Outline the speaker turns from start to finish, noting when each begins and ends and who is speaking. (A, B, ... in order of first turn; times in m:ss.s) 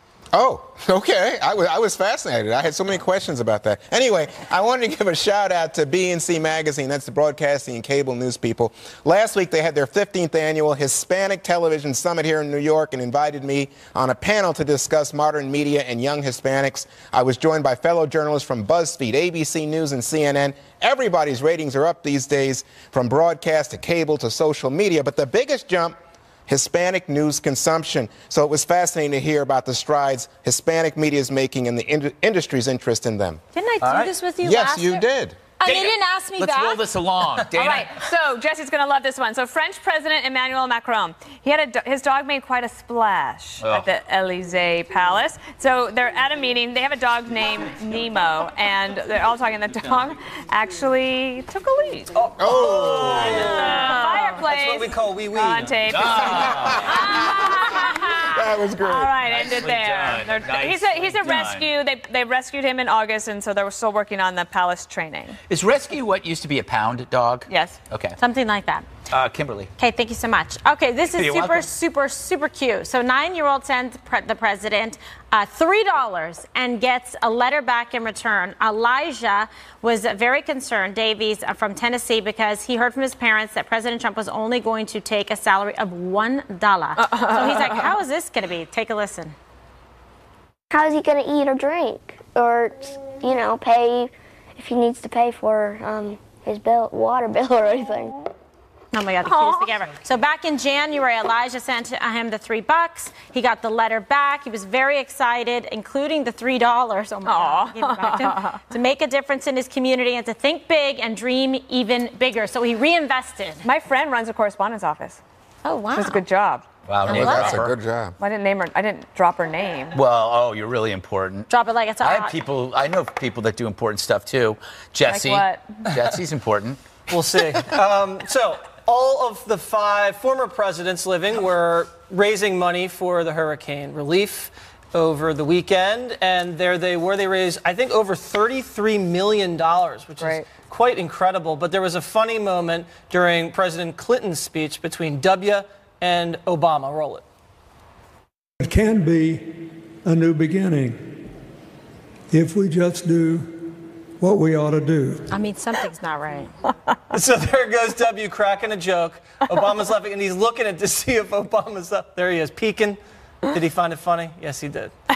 0:00.3-0:33.4 A
0:33.5-0:35.0 B
0:33.8-0:34.1 C
0:34.4-0:35.4 A
0:35.6-0:36.8 B
0:35.6-0:38.0 C
0:37.6-1:05.4 D
0:52.2-0:55.9 E
0:52.4-0:53.3 A
0:53.3-0:54.3 B
0:55.9-0:57.7 C
0:56.5-0:57.0 A
0:58.3-0:59.1 A
0:59.3-1:01.7 C
1:05.5-1:08.2 C
1:07.5-1:07.8 D
1:08.2-1:08.9 B
1:09.1-1:09.7 C
1:09.8-1:29.4 B
1:11.2-1:11.7 C
1:27.0-1:27.9 D
1:30.7-1:38.2 F
1:38.9-1:53.6 B
1:47.2-1:48.6 D
1:53.6-1:55.2 D
1:55.6-1:56.2 B
1:55.9-1:56.6 D
1:56.9-1:57.7 C
1:57.1-1:58.2 A
1:57.1-1:57.5 B
1:58.2-2:00.0 D
1:59.9-2:01.5 C
2:01.5-2:02.4 B
2:02.0-2:06.8 C
2:05.1-2:05.8 D
2:07.1-2:27.2 E
2:20.2-2:20.5 D
2:28.6-2:31.3 G
2:32.3-2:35.3 G
2:35.3-2:36.5 B
2:37.1-2:44.9 E